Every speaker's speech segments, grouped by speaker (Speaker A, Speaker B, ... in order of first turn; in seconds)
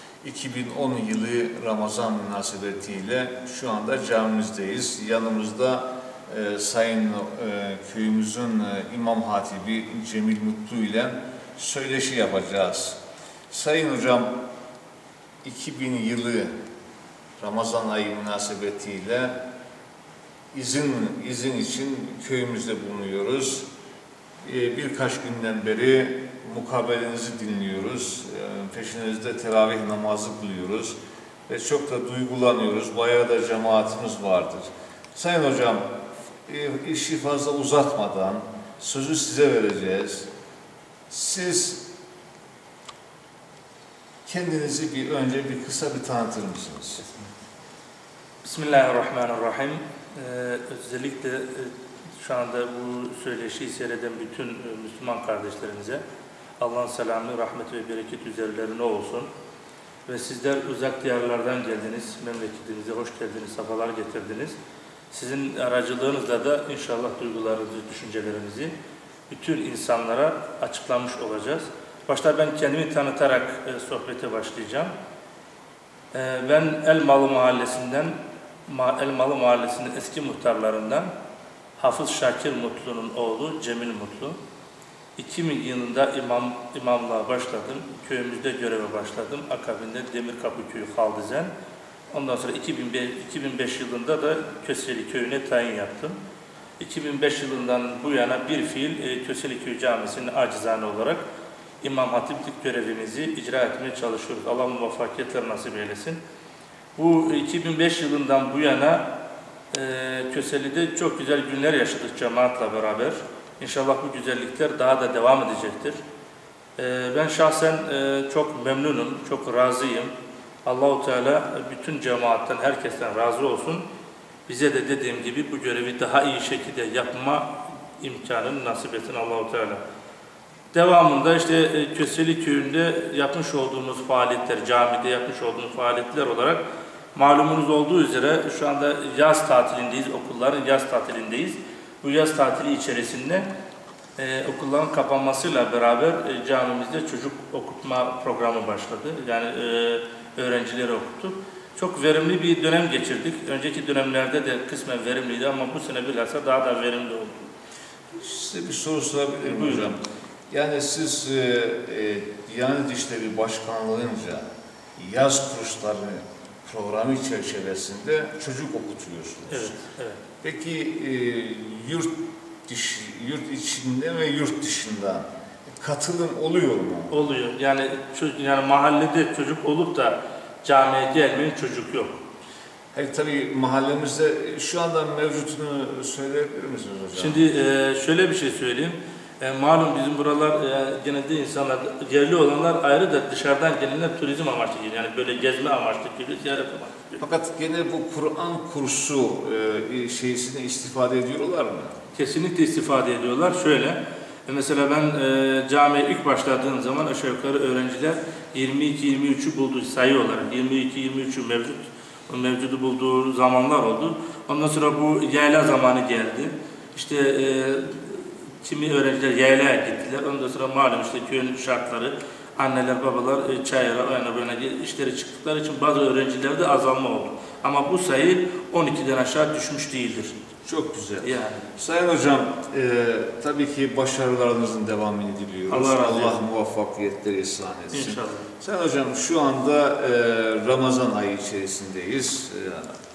Speaker A: 0.2-13.0, 13.5-14.3, 15.4-16.5, 17.4-19.4, 20.5-23.7, 24.4-31.0, 31.5-35.8, 36.5-40.3, 41.1-41.9, 44.3-47.0, 158.1-164.4, 165.0-169.8, 170.4-175.3, 175.8-177.2, 182.9-187.5, 197.2-201.9, 230.7-242.9
Speaker B: 48.4-56.0, 56.6-59.3, 60.1-64.5, 65.1-68.7, 69.3-74.9, 76.1-78.2, 78.7-81.1, 81.8-84.4, 85.2-91.5, 92.1-96.2, 96.8-101.2, 101.8-106.2, 107.0-109.1, 109.7-116.0, 116.8-120.1, 120.7-123.8, 124.5-129.8, 130.7-136.6, 137.2-143.5, 144.2-157.5, 159.4-159.9, 169.5-170.2, 177.1-182.2, 187.2-197.2, 202.2-230.3, 231.2-231.7, 235.7-236.4, 237.9-238.5